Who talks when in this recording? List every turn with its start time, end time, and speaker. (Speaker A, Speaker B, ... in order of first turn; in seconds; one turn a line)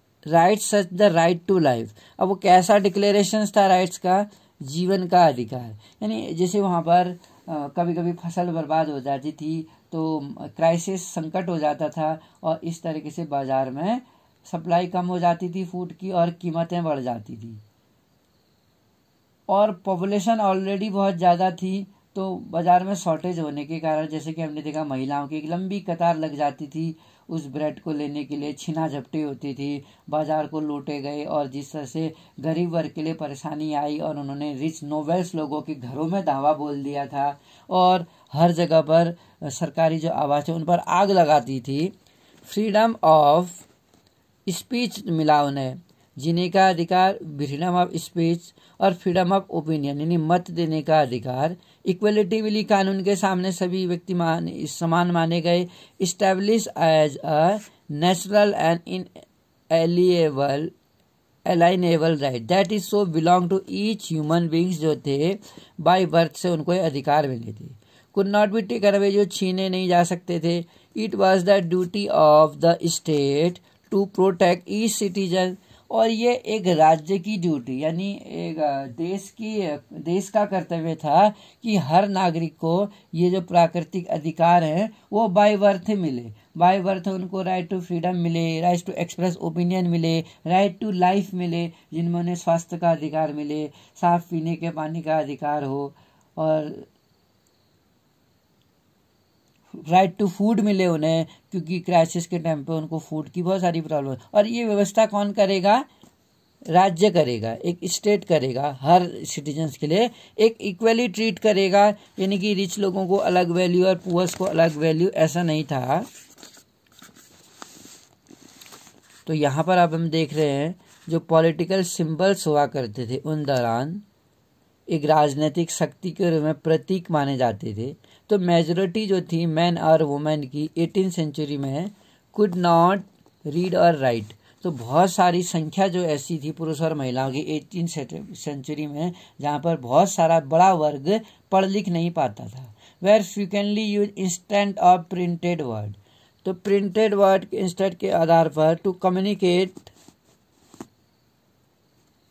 Speaker A: 0.3-17.6
Speaker A: 19.5-41.9
Speaker A: 42.4-43.6
Speaker A: 44.5-59.1
Speaker A: 59.7-60.7
Speaker A: 61.4-96.9
Speaker A: 99.8-105.8
Speaker A: 106.7-116.0
Speaker A: 119.2-124.0
Speaker A: 124.9-149.9